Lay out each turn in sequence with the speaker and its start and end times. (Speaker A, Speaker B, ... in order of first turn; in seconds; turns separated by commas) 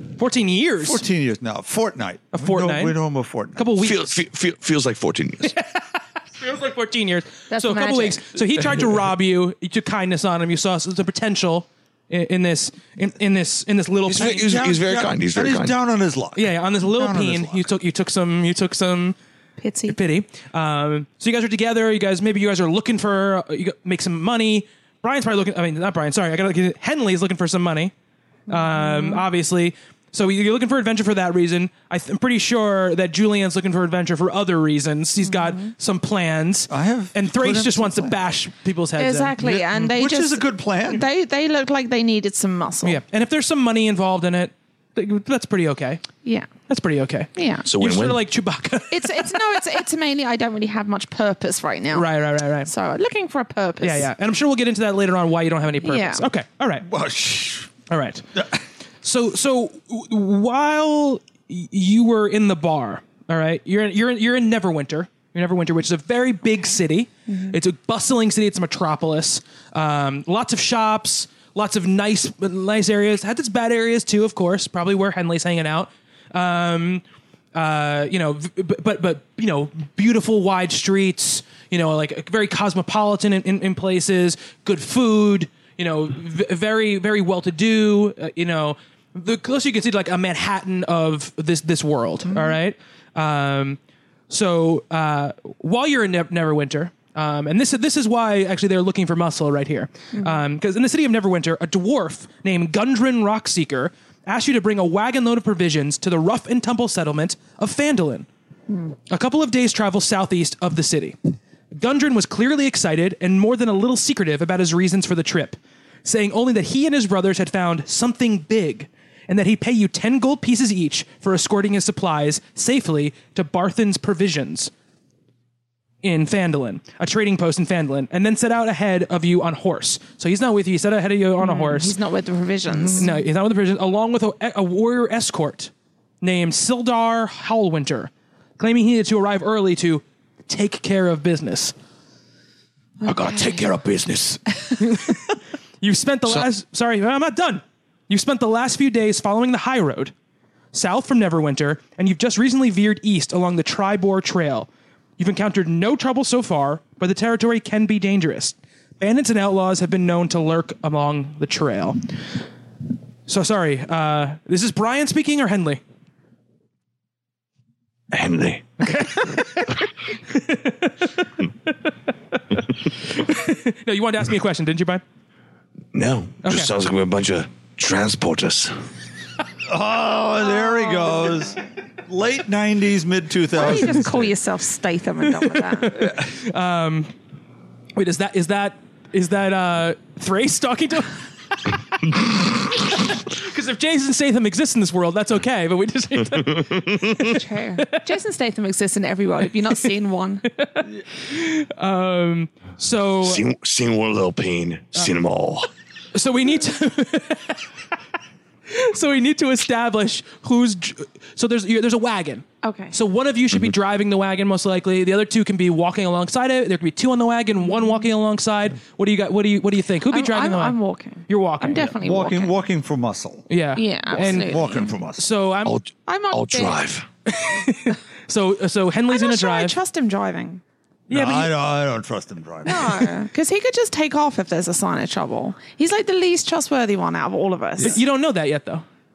Speaker A: 0.2-1.0, Speaker B: 0.8-3.6, Speaker A: 2.3-3.0, Speaker A: 3.6-4.0, Speaker C: 3.8-5.5, Speaker A: 5.4-14.5, Speaker D: 7.5-8.2, Speaker C: 14.1-15.8, Speaker B: 14.2-17.7, Speaker A: 16.4-19.2, Speaker D: 19.6-20.0, Speaker A: 19.9-27.9, Speaker D: 28.5-29.2, Speaker A: 28.5-39.9, Speaker D: 35.2-35.7, Speaker B: 36.7-38.2, Speaker D: 39.0-43.0, Speaker B: 39.4-41.1, Speaker A: 42.8-46.0, Speaker D: 46.2-46.5, Speaker A: 46.7-49.6, Speaker D: 47.4-47.7, Speaker C: 47.6-48.2, Speaker D: 48.9-52.1, Speaker A: 51.9-52.7, Speaker D: 52.6-54.1, Speaker A: 53.8-56.9, Speaker D: 55.8-56.2, Speaker B: 56.8-57.7, Speaker A: 57.9-58.3, Speaker B: 58.4-58.6, Speaker A: 59.0-77.0, Speaker D: 67.3-67.6, Speaker A: 77.5-108.3, Speaker A: 109.1-111.2, Speaker A: 111.7-124.7, Speaker A: 126.0-131.9, Speaker D: 131.4-133.1, Speaker A: 132.7-141.7, Speaker C: 143.0-144.6, Speaker D: 143.0-143.7, Speaker A: 144.8-150.1, Speaker A: 150.7-162.0, Speaker A: 163.3-165.8, Speaker C: 168.1-168.9, Speaker A: 168.8-175.0, Speaker C: 175.9-178.7, Speaker A: 176.4-176.7, Speaker B: 179.7-184.3, Speaker D: 180.5-181.3, Speaker D: 183.5-186.1, Speaker A: 185.4-187.1, Speaker A: 187.9-198.0, Speaker C: 196.3-197.2, Speaker D: 197.2-200.5, Speaker A: 200.5-203.4, Speaker C: 203.2-205.7, Speaker A: 206.1-207.7, Speaker A: 208.7-221.9, Speaker D: 212.6-212.9, Speaker D: 220.1-222.6, Speaker B: 222.0-223.5, Speaker A: 223.5-224.6, Speaker D: 223.8-224.9, Speaker B: 224.1-225.2, Speaker A: 225.2-225.8, Speaker C: 225.7-227.1, Speaker D: 226.1-226.8, Speaker A: 227.3-229.8, Speaker D: 229.1-230.6, Speaker A: 231.1-231.5, Speaker B: 231.1-233.1, Speaker D: 232.7-238.0, Speaker A: 237.8-238.8